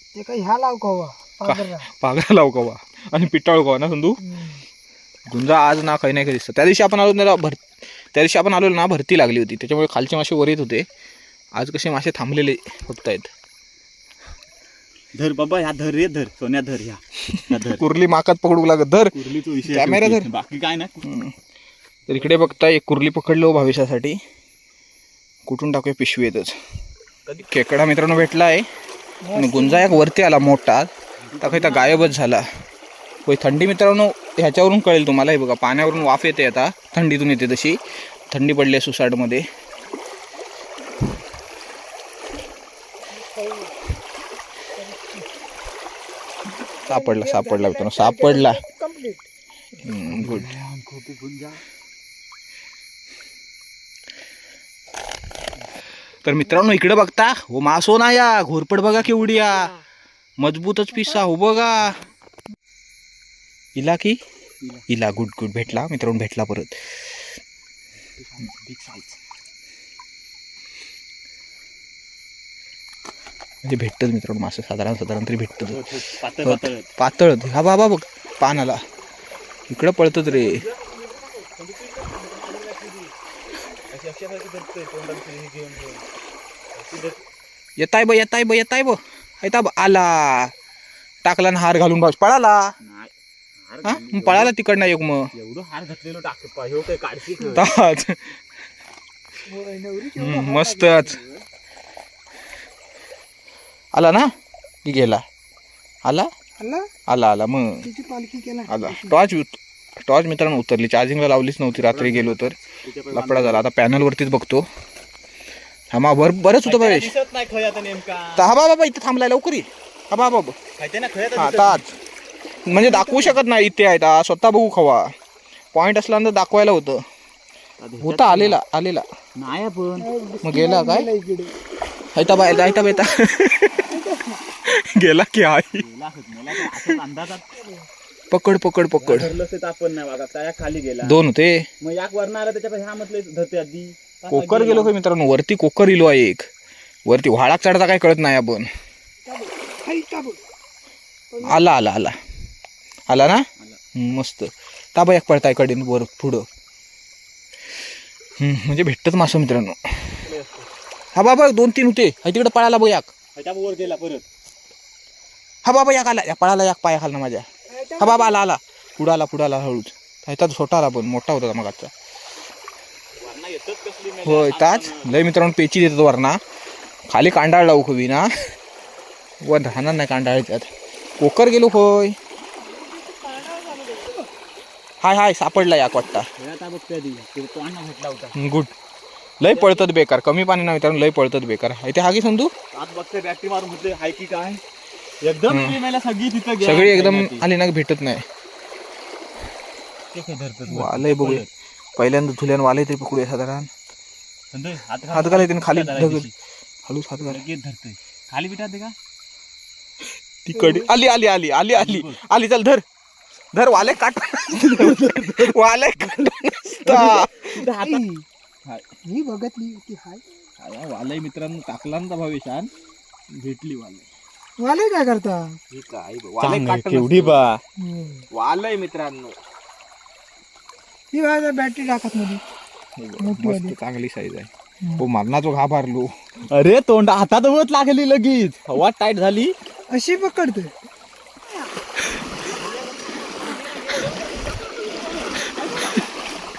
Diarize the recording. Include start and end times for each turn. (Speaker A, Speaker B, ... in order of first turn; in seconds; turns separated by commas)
Speaker A: 0.1-1.9, Speaker B: 1.4-4.3, Speaker A: 4.2-4.6, Speaker B: 5.3-10.9, Speaker B: 11.5-13.3, Speaker C: 15.1-17.8, Speaker B: 17.6-20.3, Speaker C: 19.1-21.1, Speaker B: 21.0-21.4, Speaker C: 22.1-22.5, Speaker B: 22.1-24.2, Speaker B: 25.4-26.5, Speaker C: 27.3-27.6, Speaker B: 27.4-28.7, Speaker A: 29.2-30.0, Speaker B: 29.3-30.9, Speaker C: 31.2-32.1, Speaker B: 31.4-32.5, Speaker B: 33.2-37.8, Speaker B: 38.3-39.4, Speaker A: 43.2-43.8, Speaker A: 44.8-45.2, Speaker B: 46.9-48.6, Speaker A: 46.9-49.2, Speaker B: 49.8-50.6, Speaker C: 50.1-51.6, Speaker B: 56.2-59.7, Speaker B: 60.4-62.0, Speaker B: 63.8-64.2, Speaker B: 64.9-66.8, Speaker C: 68.2-69.2, Speaker B: 73.6-75.8, Speaker C: 75.7-76.9, Speaker B: 76.4-78.8, Speaker B: 79.7-80.6, Speaker C: 80.2-83.1, Speaker C: 83.9-86.0, Speaker C: 86.7-87.2, Speaker B: 87.8-90.5, Speaker B: 91.2-92.6, Speaker C: 92.8-93.1, Speaker C: 93.7-94.5, Speaker B: 93.8-95.3, Speaker C: 95.3-97.7, Speaker B: 97.5-98.4, Speaker A: 99.5-101.0, Speaker B: 100.1-101.2, Speaker C: 100.9-101.4, Speaker B: 103.9-104.3, Speaker B: 104.8-105.2, Speaker A: 106.6-106.9, Speaker B: 107.1-107.9, Speaker A: 107.8-109.2, Speaker B: 108.7-112.6, Speaker C: 111.7-113.7, Speaker B: 113.1-114.7, Speaker B: 115.9-117.1, Speaker C: 116.6-118.5, Speaker B: 118.4-120.5, Speaker C: 120.8-121.8, Speaker B: 121.4-121.9, Speaker B: 122.6-125.1, Speaker C: 123.0-123.4, Speaker B: 125.7-127.0, Speaker C: 127.8-128.6, Speaker B: 128.0-129.0, Speaker C: 129.4-130.1, Speaker A: 130.0-131.5, Speaker B: 130.4-131.1, Speaker B: 132.1-133.9, Speaker A: 132.3-133.2, Speaker A: 133.9-134.4, Speaker B: 134.6-135.8, Speaker C: 135.7-137.6, Speaker B: 136.6-136.9, Speaker B: 138.3-139.3, Speaker C: 139.0-141.2, Speaker B: 141.0-141.7, Speaker C: 141.8-144.9, Speaker B: 144.3-146.4, Speaker B: 147.1-148.7, Speaker A: 149.3-150.4, Speaker B: 151.4-152.2, Speaker B: 153.1-153.4, Speaker B: 153.9-156.4, Speaker B: 158.4-160.2, Speaker C: 160.2-160.7, Speaker B: 161.1-163.1, Speaker C: 163.4-164.2, Speaker B: 165.6-171.9, Speaker A: 167.8-168.2, Speaker C: 173.2-175.1, Speaker B: 174.2-176.4, Speaker B: 177.1-178.3, Speaker B: 179.4-182.1, Speaker A: 183.0-184.3, Speaker B: 185.0-186.3, Speaker C: 186.4-188.4, Speaker B: 188.4-188.7, Speaker B: 189.4-192.5, Speaker C: 189.5-189.9, Speaker C: 192.7-194.6, Speaker C: 195.2-197.5, Speaker B: 195.5-195.8, Speaker B: 196.6-198.2, Speaker C: 200.1-201.5, Speaker B: 200.7-201.4, Speaker B: 202.0-203.7, Speaker C: 204.5-206.3, Speaker B: 205.1-206.3, Speaker B: 206.9-207.4, Speaker C: 207.2-208.9, Speaker B: 210.4-212.8, Speaker A: 210.5-210.9, Speaker C: 211.7-212.2, Speaker B: 213.5-217.6, Speaker C: 214.6-215.6, Speaker C: 216.8-218.8, Speaker A: 217.8-218.1, Speaker A: 219.0-220.2, Speaker B: 220.6-222.7, Speaker C: 223.4-224.1, Speaker A: 224.6-225.6, Speaker B: 225.7-227.5, Speaker C: 226.4-227.6, Speaker A: 227.8-228.2, Speaker B: 228.3-229.4, Speaker A: 231.1-232.4, Speaker B: 233.0-236.1, Speaker A: 233.2-233.8, Speaker C: 236.5-239.5, Speaker A: 239.9-240.7, Speaker C: 242.4-244.5, Speaker A: 244.8-245.6, Speaker C: 245.7-246.0